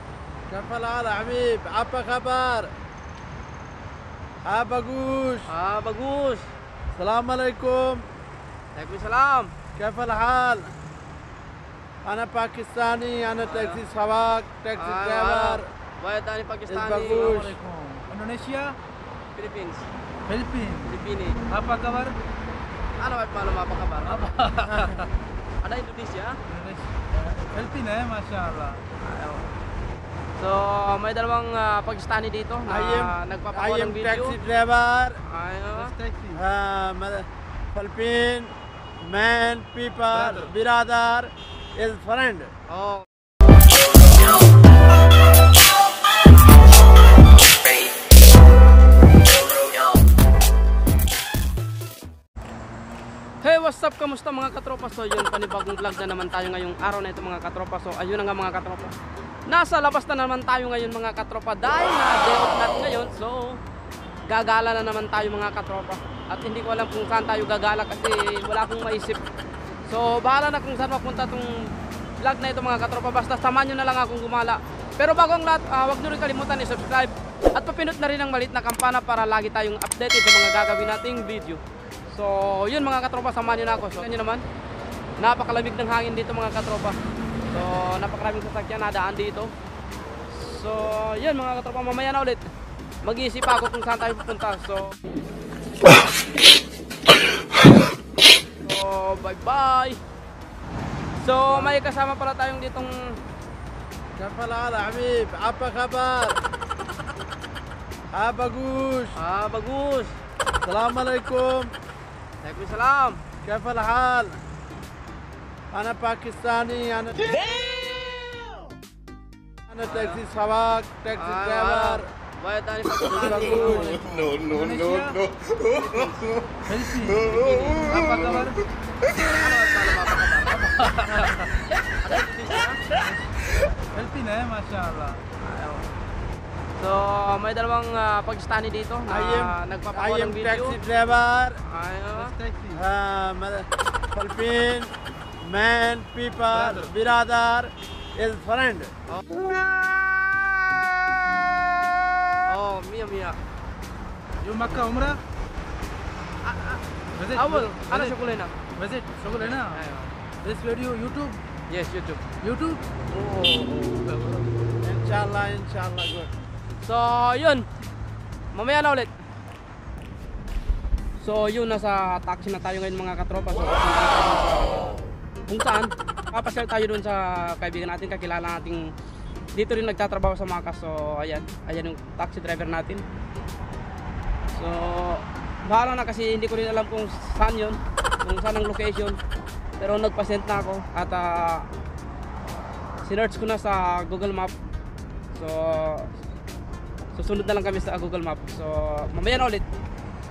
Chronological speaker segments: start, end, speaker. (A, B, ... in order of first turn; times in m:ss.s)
0:00.5-0:02.7 A
0:04.4-0:05.5 A
0:05.5-0:06.5 B
0:06.9-0:08.0 A
0:08.7-0:09.5 B
0:09.8-0:10.7 A
0:12.0-0:15.7 A
0:13.4-0:13.8 B
0:14.8-0:17.5 B
0:16.7-0:17.6 A
0:17.2-0:18.8 C
0:19.3-0:19.9 B
0:20.3-0:20.9 C
0:20.8-0:21.4 B
0:21.5-0:22.2 C
0:22.9-0:24.3 B
0:24.1-0:25.1 C
0:25.6-0:26.4 B
0:26.5-0:28.8 C
0:29.0-0:29.5 B
0:30.4-0:34.4 B
0:32.7-0:35.2 A
0:35.2-0:35.9 B
0:35.7-0:36.4 C
0:36.3-0:42.5 A
0:40.1-0:40.5 C
0:42.7-0:43.0 B
0:53.4-1:03.6 B
1:04.2-1:09.2 B
1:09.8-1:24.4 B
1:25.2-1:29.5 B
1:30.3-1:32.5 B
1:33.0-1:35.0 B
1:38.6-1:40.0 B
1:41.2-1:43.2 B
1:44.2-1:46.4 A
1:48.1-1:49.1 A
1:49.1-1:50.2 B
1:50.6-1:51.7 A
1:52.4-1:53.2 B
1:53.4-1:54.4 A
1:55.7-1:57.5 A
1:59.6-2:02.1 A
1:59.8-2:00.2 B
2:01.1-2:04.5 B
2:03.5-2:05.6 C
2:05.6-2:06.4 B
2:06.5-2:08.6 C
2:07.2-2:08.2 B
2:09.0-2:12.8 B
2:10.5-2:11.5 C
2:13.0-2:15.2 C
2:15.4-2:15.9 B
2:16.8-2:20.8 B
2:19.1-2:21.6 A
2:21.6-2:22.3 B
2:22.2-2:22.8 C
2:22.7-2:29.0 A
2:26.5-2:26.9 C
2:32.4-2:33.4 B
2:34.4-2:35.2 C
2:36.4-2:38.6 B
2:37.1-2:38.1 C
2:38.8-2:39.8 C
2:39.3-2:40.1 B
2:40.4-2:41.4 C
2:41.7-2:42.2 B
2:42.4-2:42.8 C
2:43.2-2:43.8 B
2:44.0-2:44.5 C
2:44.8-2:46.3 A
2:46.8-2:47.7 B
2:48.5-2:49.1 B
2:51.2-2:58.9 B
2:59.5-3:03.0 B
3:04.5-3:09.2 B
3:09.8-3:11.7 B
3:13.0-3:14.5 B
3:15.3-3:16.1 B
3:17.1-3:19.6 B